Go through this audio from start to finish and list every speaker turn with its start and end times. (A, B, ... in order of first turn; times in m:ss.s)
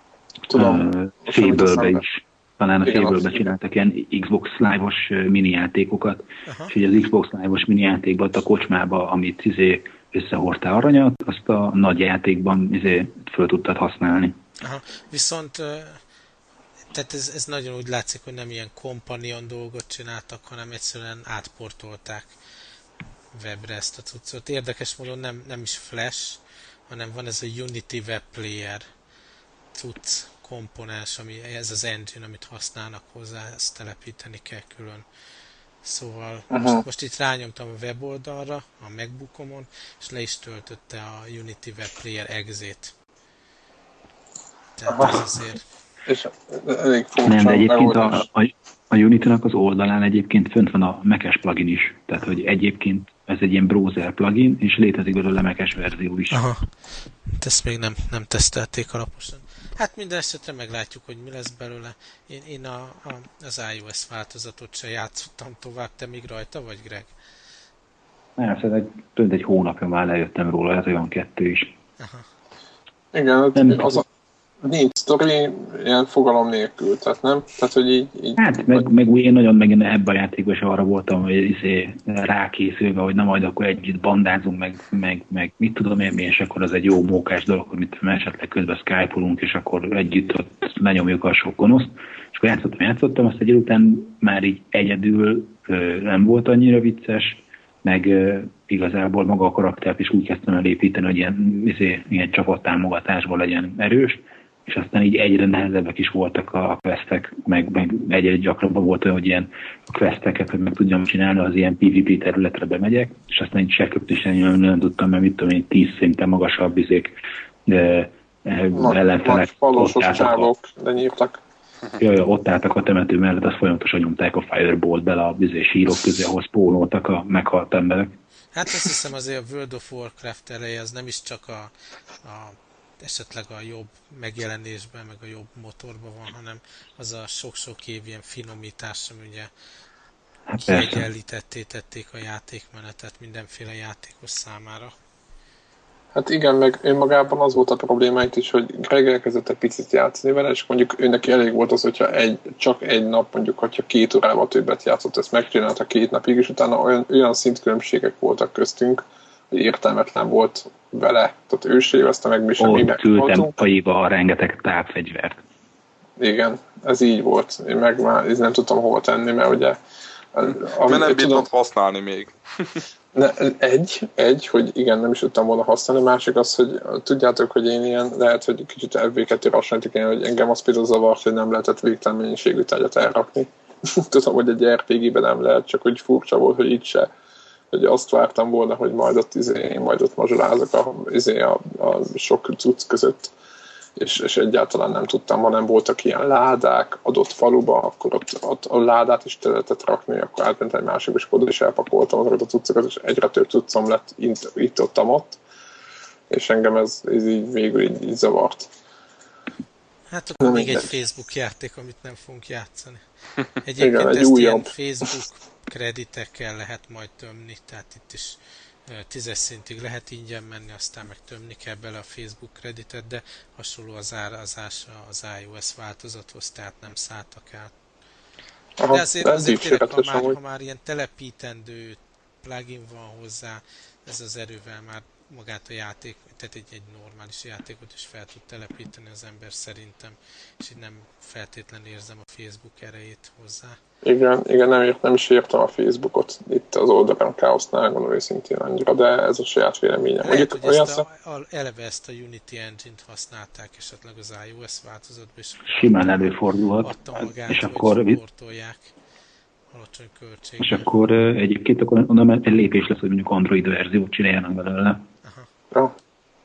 0:00.5-0:02.0 A
0:00.5-0:14.4 B
0:02.8-0:03.4 A
0:06.5-0:06.7 C
0:14.6-0:16.0 C
0:16.9-0:22.4 C
0:23.3-0:28.9 C
0:29.8-0:35.1 C
0:35.8-0:43.0 C
0:36.5-0:36.8 A
0:44.8-0:45.6 C
0:44.9-0:45.3 A
0:46.1-0:48.2 A
0:47.2-0:56.4 B
0:56.3-0:56.7 C
0:57.3-1:07.1 C
1:08.4-1:11.8 B
1:12.0-1:12.3 C
1:13.1-1:14.1 A
1:13.6-1:14.0 B
1:14.6-1:18.8 A
1:18.4-2:00.5 B
1:58.7-2:01.4 A
2:02.0-2:08.2 B
2:08.5-2:11.7 C
2:12.2-2:19.5 C
2:20.5-2:21.0 B
2:20.6-2:25.0 C
2:26.1-2:43.6 A
2:42.6-2:45.4 B
2:46.2-2:49.8 A
2:50.3-2:51.5 A
2:50.6-2:52.8 D
2:53.1-3:07.1 A
3:07.7-3:13.3 A
3:14.0-3:25.4 A
3:26.3-3:28.7 A
3:30.1-3:33.0 C
3:30.4-3:30.9 A
3:33.6-3:47.7 C
3:33.8-3:34.7 A
3:48.8-3:50.4 A
3:48.9-4:03.8 C
4:04.0-4:11.0 A
4:10.2-4:18.9 C
4:15.7-4:18.2 B
4:19.7-4:20.9 C
4:20.6-4:25.0 B